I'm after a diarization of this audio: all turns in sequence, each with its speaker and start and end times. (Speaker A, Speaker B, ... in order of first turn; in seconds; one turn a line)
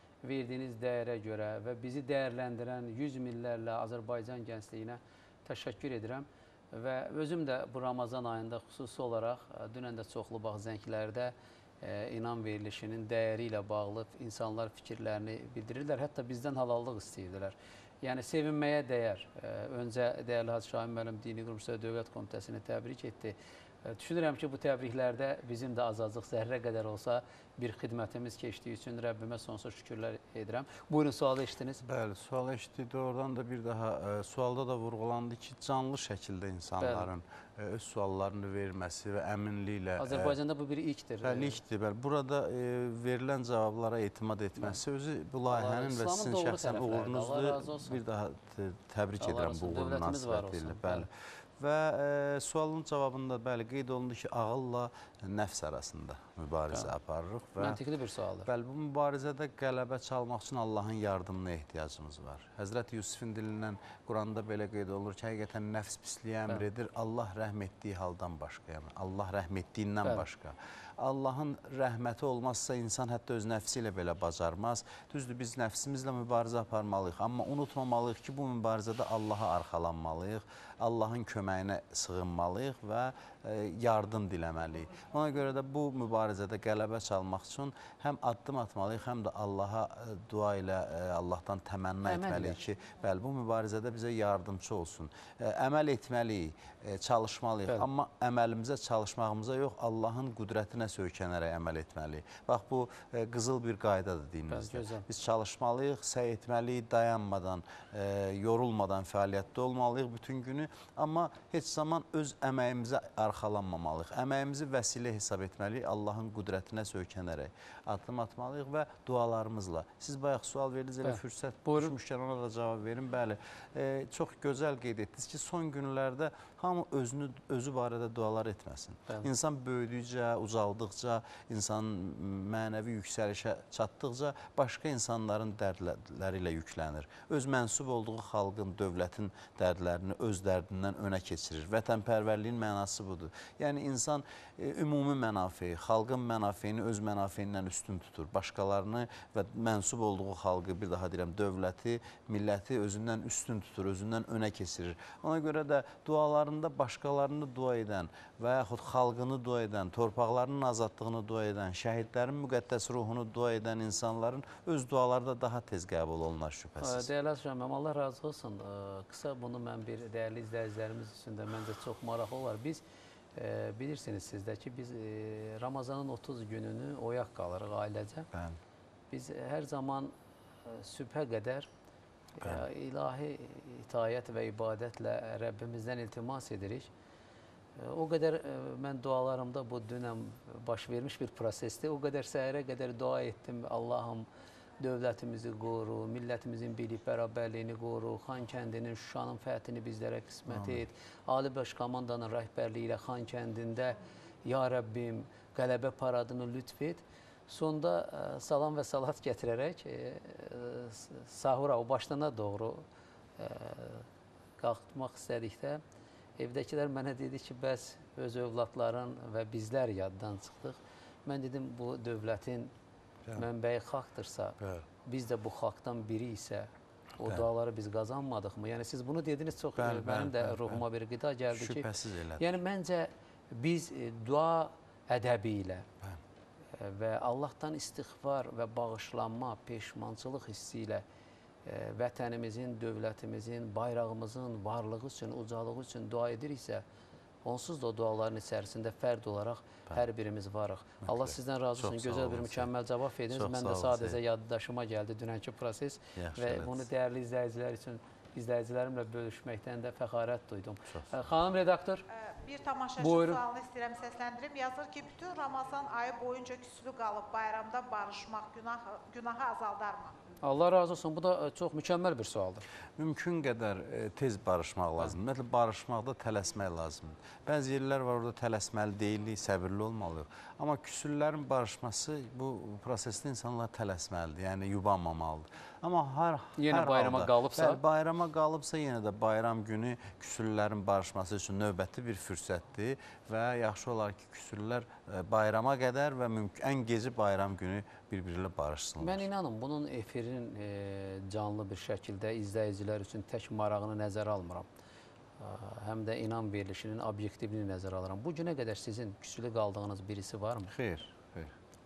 Speaker A: 0.2-31.8
Speaker B: 31.8-40.4
Speaker A: 36.8-37.1
Speaker A: 40.0-41.6
Speaker B: 41.2-57.8
Speaker A: 45.5-48.0
Speaker A: 49.2-51.1
Speaker A: 57.6-58.5
Speaker B: 58.5-167.1
Speaker A: 92.0-92.6
Speaker A: 104.5-105.0
Speaker A: 121.0-121.9
Speaker A: 166.8-172.8
Speaker A: 173.3-178.3
Speaker B: 178.3-178.6
Speaker A: 179.1-180.1
Speaker A: 180.7-181.7
Speaker A: 182.4-186.9
Speaker A: 187.8-194.3
Speaker A: 194.8-212.8
Speaker B: 200.5-200.8
Speaker A: 213.4-214.1
Speaker A: 214.6-215.8
Speaker A: 216.4-222.7
Speaker A: 223.3-231.9
Speaker B: 224.6-224.8
Speaker B: 229.8-230.8
Speaker B: 231.5-232.5
Speaker A: 232.4-235.9
Speaker A: 236.8-241.0
Speaker A: 241.7-246.8
Speaker A: 247.4-262.0
Speaker B: 251.1-252.7
Speaker B: 253.3-254.2
Speaker B: 256.1-256.9
Speaker B: 260.9-261.2
Speaker C: 262.1-270.1
Speaker A: 263.0-263.4
Speaker A: 270.4-272.6
Speaker B: 272.9-299.2
Speaker A: 286.6-287.8
Speaker A: 299.0-304.7
Speaker A: 305.4-310.7
Speaker B: 310.7-311.6